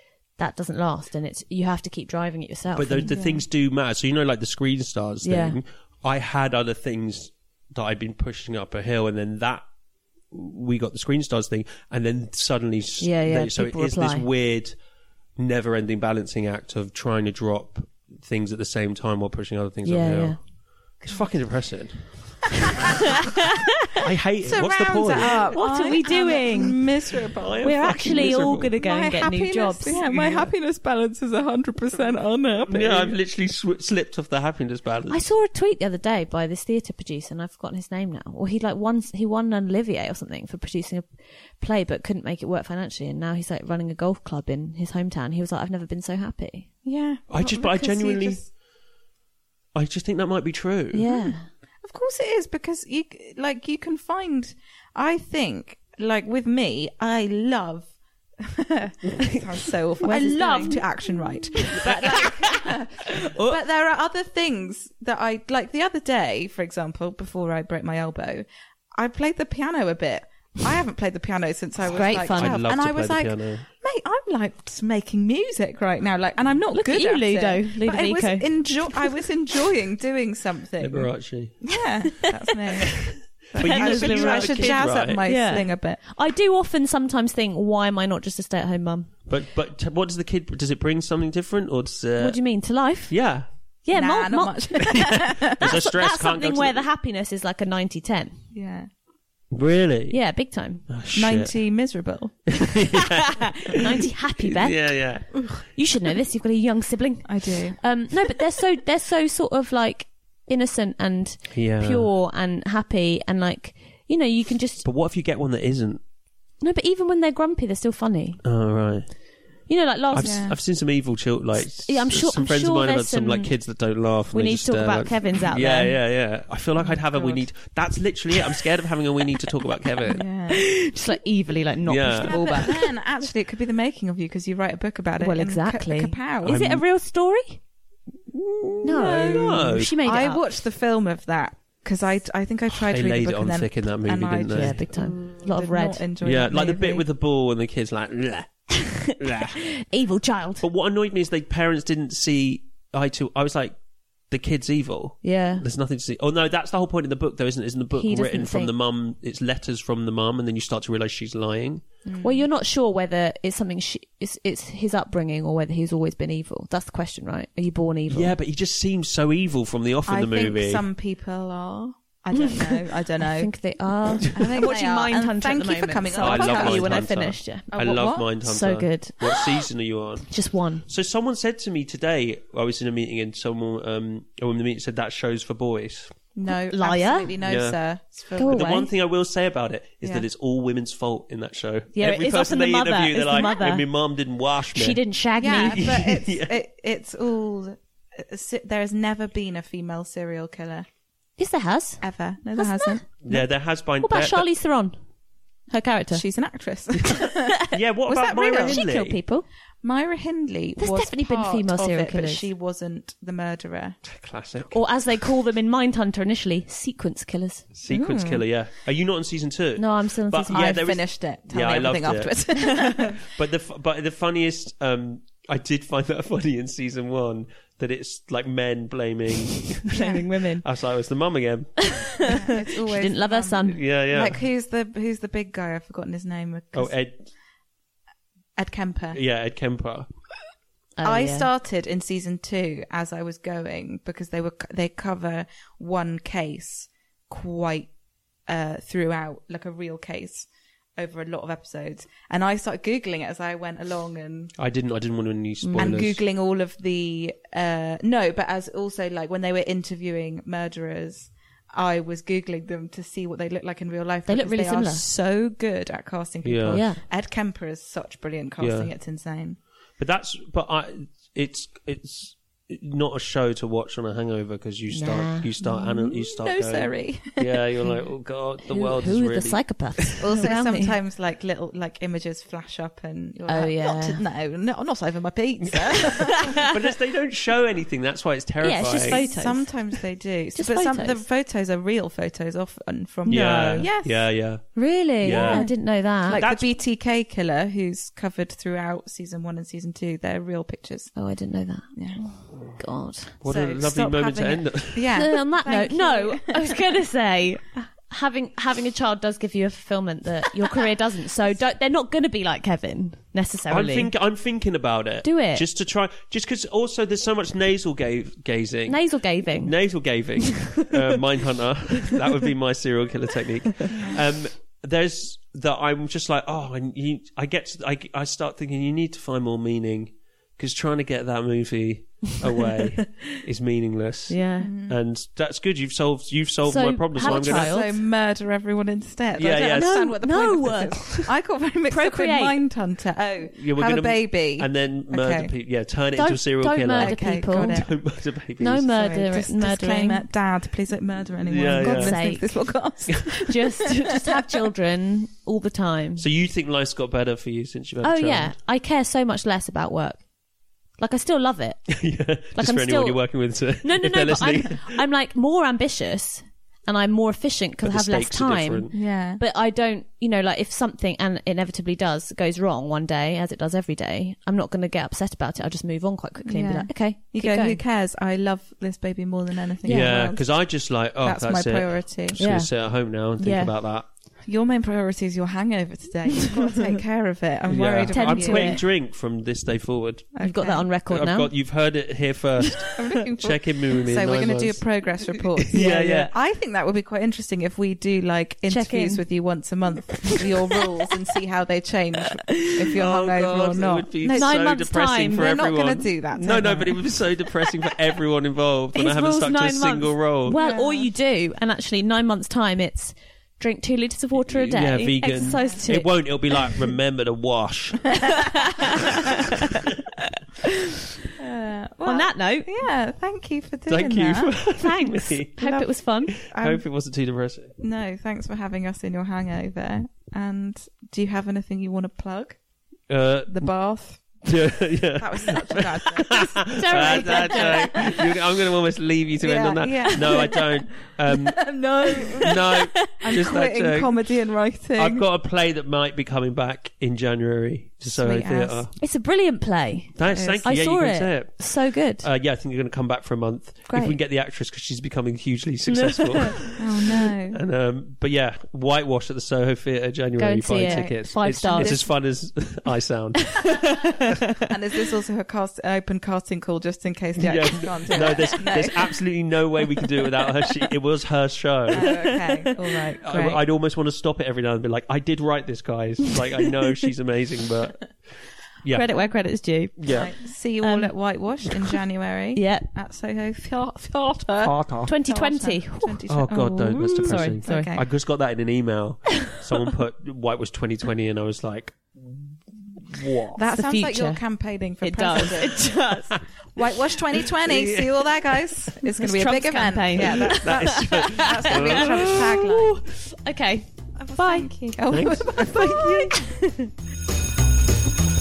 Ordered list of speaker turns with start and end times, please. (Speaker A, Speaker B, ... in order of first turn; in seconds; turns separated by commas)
Speaker A: 0.4-3.1, Speaker B: 2.7-9.6, Speaker C: 3.0-3.4, Speaker A: 5.2-5.6, Speaker B: 10.3-14.8, Speaker A: 13.0-14.3, Speaker B: 15.4-22.6, Speaker A: 19.8-20.5, Speaker B: 24.0-25.6, Speaker C: 24.4-33.1, Speaker A: 25.5-30.4, Speaker B: 27.4-28.7, Speaker B: 30.2-30.5, Speaker B: 32.7-35.2, Speaker A: 35.1-46.7, Speaker C: 46.8-48.5, Speaker B: 47.3-48.5, Speaker B: 49.7-51.2, Speaker A: 50.9-51.5, Speaker C: 51.1-86.0, Speaker A: 60.0-63.4, Speaker B: 61.7-62.2, Speaker A: 71.9-72.7, Speaker B: 72.3-73.7, Speaker A: 76.7-79.1, Speaker B: 80.8-81.6, Speaker B: 83.5-85.3, Speaker A: 83.6-89.2, Speaker B: 89.3-93.5, Speaker A: 92.2-98.4, Speaker C: 93.9-95.6, Speaker B: 94.9-96.8, Speaker C: 98.5-98.9, Speaker B: 99.5-100.2, Speaker A: 100.1-100.9, Speaker B: 100.9-101.6, Speaker C: 101.1-102.9, Speaker B: 102.5-105.6, Speaker A: 102.9-114.8, Speaker C: 107.2-107.8, Speaker B: 111.5-112.1, Speaker B: 114.8-116.0, Speaker A: 116.6-118.4, Speaker B: 118.4-119.2, Speaker A: 119.7-120.5, Speaker B: 120.1-130.2, Speaker C: 120.2-120.6, Speaker A: 121.6-123.7, Speaker A: 124.3-126.0, Speaker C: 126.8-127.5, Speaker A: 130.0-132.9, Speaker C: 130.1-130.7, Speaker B: 131.8-132.7, Speaker C: 132.2-136.6, Speaker A: 135.2-137.6, Speaker B: 136.4-136.8, Speaker B: 138.3-139.9, Speaker A: 138.8-140.4, Speaker C: 138.9-147.0, Speaker B: 142.7-144.8, Speaker A: 144.5-146.1, Speaker B: 146.2-149.6, Speaker A: 148.9-150.7, Speaker B: 150.6-161.8, Speaker A: 155.2-155.7, Speaker A: 157.9-158.7, Speaker C: 162.0-162.4, Speaker A: 162.2-168.3, Speaker B: 168.1-170.8, Speaker C: 170.1-173.7, Speaker A: 173.3-177.7, Speaker C: 174.3-177.2, Speaker B: 176.2-186.1, Speaker C: 177.7-178.3, Speaker A: 178.2-179.7, Speaker A: 180.3-180.8, Speaker C: 186.3-188.9, Speaker A: 186.5-187.3, Speaker B: 187.4-187.8, Speaker A: 188.4-188.8, Speaker B: 188.5-195.0, Speaker A: 191.9-194.1, Speaker A: 194.7-196.0, Speaker C: 195.4-200.8, Speaker B: 195.5-196.5, Speaker A: 201.4-202.0, Speaker C: 202.0-203.0, Speaker A: 202.6-205.0, Speaker B: 203.2-204.5, Speaker A: 205.7-206.2, Speaker C: 206.1-208.8, Speaker B: 207.7-209.2, Speaker A: 208.6-209.4, Speaker C: 209.8-214.0, Speaker A: 210.8-212.5, Speaker B: 214.0-214.8, Speaker A: 214.7-217.7, Speaker B: 217.7-230.1, Speaker C: 217.9-218.4, Speaker A: 219.8-221.0, Speaker C: 220.5-223.2, Speaker A: 229.9-230.7, Speaker C: 229.9-230.2, Speaker B: 230.6-232.0, Speaker A: 231.8-233.8, Speaker C: 232.2-236.9, Speaker B: 233.7-234.4, Speaker B: 236.7-237.3, Speaker C: 238.6-239.2, Speaker B: 239.1-240.1, Speaker A: 241.0-241.5, Speaker C: 241.0-247.9, Speaker C: 248.5-254.5, Speaker B: 254.6-256.2, Speaker A: 255.6-256.1, Speaker C: 255.8-269.6, Speaker A: 264.3-265.1, Speaker B: 266.4-266.9, Speaker A: 266.7-267.0, Speaker B: 268.6-268.9, Speaker B: 270.0-280.0, Speaker A: 274.9-276.1, Speaker C: 276.0-277.6, Speaker A: 278.7-280.9, Speaker C: 280.2-286.7, Speaker A: 283.5-284.2, Speaker B: 286.6-289.2, Speaker A: 288.6-290.0, Speaker C: 288.9-294.3, Speaker A: 290.5-291.2, Speaker B: 293.3-296.7, Speaker A: 293.3-293.9, Speaker A: 294.7-296.4, Speaker C: 295.3-301.2, Speaker A: 301.1-303.4, Speaker C: 301.9-302.2, Speaker B: 303.4-305.2, Speaker C: 303.4-306.8, Speaker A: 305.1-314.1, Speaker B: 313.7-337.7, Speaker A: 315.2-315.6, Speaker A: 318.9-319.8, Speaker A: 320.4-321.0, Speaker C: 323.9-324.2, Speaker A: 333.0-333.4, Speaker A: 334.3-334.7, Speaker C: 334.6-335.0, Speaker A: 336.6-337.9, Speaker C: 337.1-345.5, Speaker B: 339.4-340.0, Speaker A: 339.7-342.6, Speaker B: 343.5-349.0, Speaker A: 346.1-347.9, Speaker C: 347.0-347.9, Speaker A: 348.6-350.3, Speaker C: 348.9-354.4, Speaker B: 351.4-352.2, Speaker A: 351.8-356.2, Speaker B: 356.2-358.6, Speaker A: 358.0-360.3, Speaker A: 361.0-377.8, Speaker B: 361.9-365.0, Speaker B: 367.8-368.9, Speaker C: 368.9-369.4, Speaker C: 376.4-382.4, Speaker A: 379.8-380.4, Speaker B: 379.8-384.1, Speaker A: 382.4-383.7, Speaker C: 384.4-388.8, Speaker B: 387.7-390.3, Speaker A: 388.0-388.8, Speaker C: 390.3-390.8, Speaker A: 390.4-391.5, Speaker B: 390.9-395.0, Speaker C: 393.0-404.7, Speaker B: 395.7-396.3, Speaker A: 395.7-396.3, Speaker A: 398.7-399.2, Speaker B: 402.9-410.6, Speaker A: 404.3-405.6, Speaker C: 405.3-407.2, Speaker A: 408.9-416.9, Speaker C: 410.5-411.1, Speaker B: 414.4-418.3, Speaker C: 421.4-424.5, Speaker A: 422.1-422.7, Speaker B: 423.9-425.9, Speaker A: 424.8-426.5, Speaker C: 425.6-426.8, Speaker B: 426.5-427.7, Speaker C: 427.8-432.6, Speaker B: 433.1-444.4, Speaker C: 433.5-438.2, Speaker A: 436.8-438.2, Speaker C: 439.4-440.6, Speaker C: 441.6-442.6, Speaker C: 443.2-445.2, Speaker B: 444.9-448.9, Speaker C: 448.1-448.9, Speaker A: 449.0-452.3, Speaker B: 450.1-464.1, Speaker C: 450.3-450.7, Speaker C: 453.9-454.1, Speaker A: 455.9-456.6, Speaker C: 456.8-457.6, Speaker A: 460.4-462.1, Speaker C: 460.7-462.1, Speaker A: 463.4-464.4, Speaker C: 464.7-469.2, Speaker B: 467.4-472.4, Speaker C: 471.9-473.6, Speaker A: 472.0-472.2, Speaker B: 473.2-479.2, Speaker A: 478.9-481.9, Speaker B: 480.0-480.3, Speaker C: 480.1-488.1, Speaker A: 482.6-482.9, Speaker B: 484.6-485.1, Speaker A: 485.0-487.9, Speaker B: 486.3-493.6, Speaker C: 493.5-503.0, Speaker A: 493.6-496.4, Speaker B: 497.4-498.6, Speaker A: 499.2-502.5, Speaker B: 500.2-503.0, Speaker A: 503.1-504.7, Speaker C: 504.1-506.4, Speaker B: 505.1-506.5, Speaker A: 506.2-506.9